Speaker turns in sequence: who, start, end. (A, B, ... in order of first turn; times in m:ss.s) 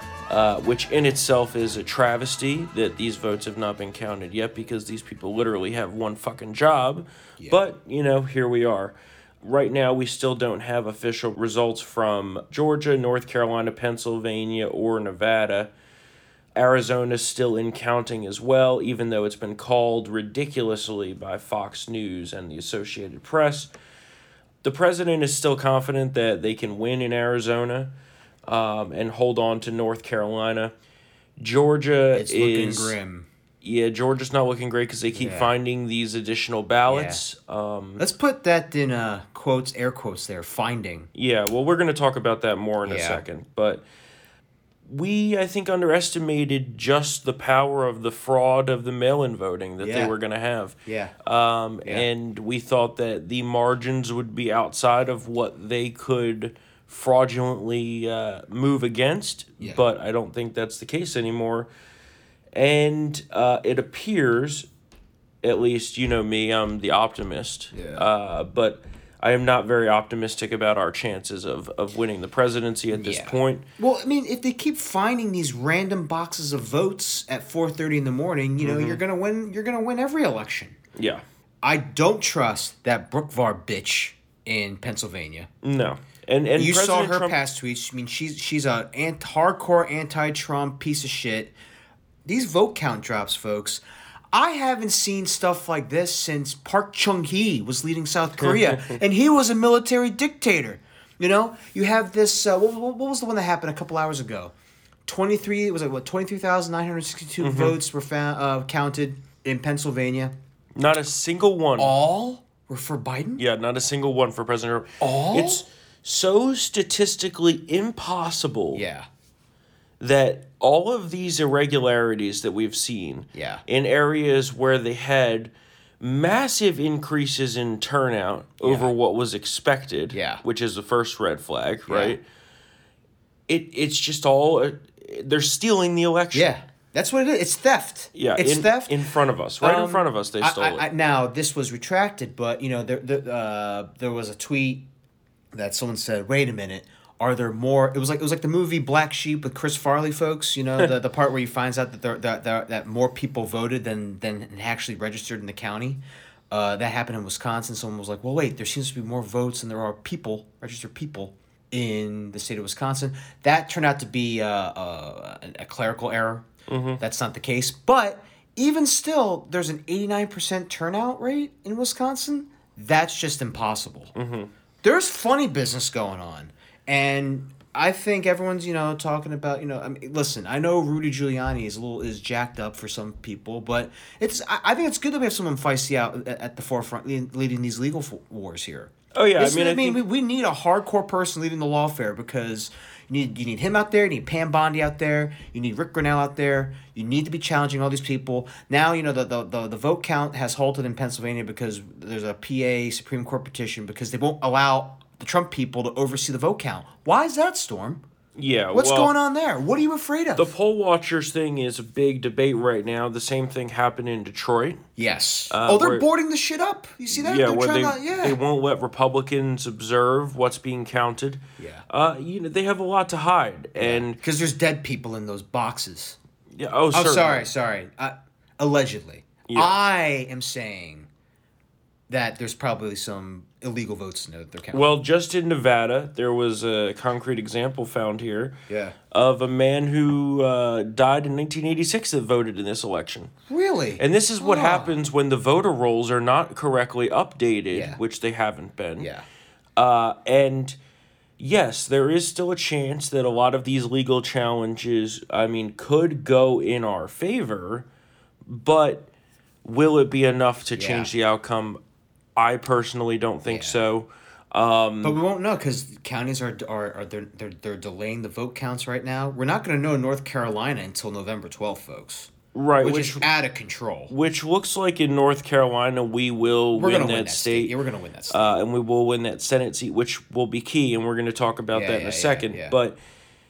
0:00.3-0:15.7 A
0:07.4-0:07.6 B
0:16.6-0:23.7 A
0:24.6-0:27.9 A
0:28.5-0:30.7 A
0:31.4-0:33.0 A
0:32.1-0:33.3 B
0:33.6-0:38.0 A
0:35.2-0:35.5 B
0:36.9-0:37.2 B
0:38.0-0:41.1 B
0:41.1-0:43.8 A
0:42.8-0:43.2 B
0:44.8-1:01.7 A
0:49.8-0:50.1 B
0:50.8-0:51.1 B
1:02.5-1:04.7 A
1:05.4-1:13.6 A
1:07.7-1:08.0 B
1:12.9-1:20.8 B
1:18.6-1:19.0 A
1:21.0-1:21.2 A
1:21.6-1:25.5 B
1:25.6-1:27.4 A
1:26.6-1:31.5 B
1:32.2-1:44.5 B
1:38.4-1:39.0 A
1:45.0-1:50.3 B
1:47.4-1:47.8 A
1:50.8-1:51.9 A
1:51.8-1:53.4 B
1:53.4-1:58.8 A
1:55.0-1:55.6 B
1:58.7-1:59.1 B
2:00.0-2:12.2 A
2:03.3-2:03.6 B
2:08.6-2:08.9 B
2:10.1-2:10.4 B
2:11.9-2:12.2 B
2:13.5-2:16.5 A
2:16.3-2:19.0 B
2:18.1-2:20.8 A
2:19.6-2:24.9 B
2:25.5-2:46.5 B
2:46.7-2:47.0 A
2:47.0-2:54.1 B
2:54.2-2:54.5 A
2:54.8-3:28.0 B
3:09.1-3:10.0 A
3:28.4-3:29.1 A
3:28.7-3:30.5 B
3:30.4-3:34.8 A
3:35.0-3:38.4 B
3:35.5-3:36.0 A
3:37.1-3:44.2 A
3:41.6-3:41.8 B
3:43.8-3:46.2 B
3:46.5-3:47.5 A
3:46.9-3:51.1 B
3:49.5-3:49.7 A
3:52.1-3:54.9 B
3:54.7-3:58.6 A
3:58.7-3:59.0 B
3:59.1-4:03.3 A
4:03.5-4:04.9 B
4:04.0-4:09.1 A
4:07.7-4:08.0 B
4:09.0-4:09.2 B
4:09.8-4:10.8 A
4:11.4-4:17.8 A
4:18.5-4:19.1 A
4:19.6-4:21.8 A
4:20.7-4:21.1 B
4:22.4-4:25.2 A
4:23.5-4:23.8 B
4:25.0-4:34.1 B
4:32.5-4:33.2 A
4:34.1-4:37.7 A
4:36.7-4:38.6 B
4:38.3-4:43.0 A
4:41.7-4:42.8 B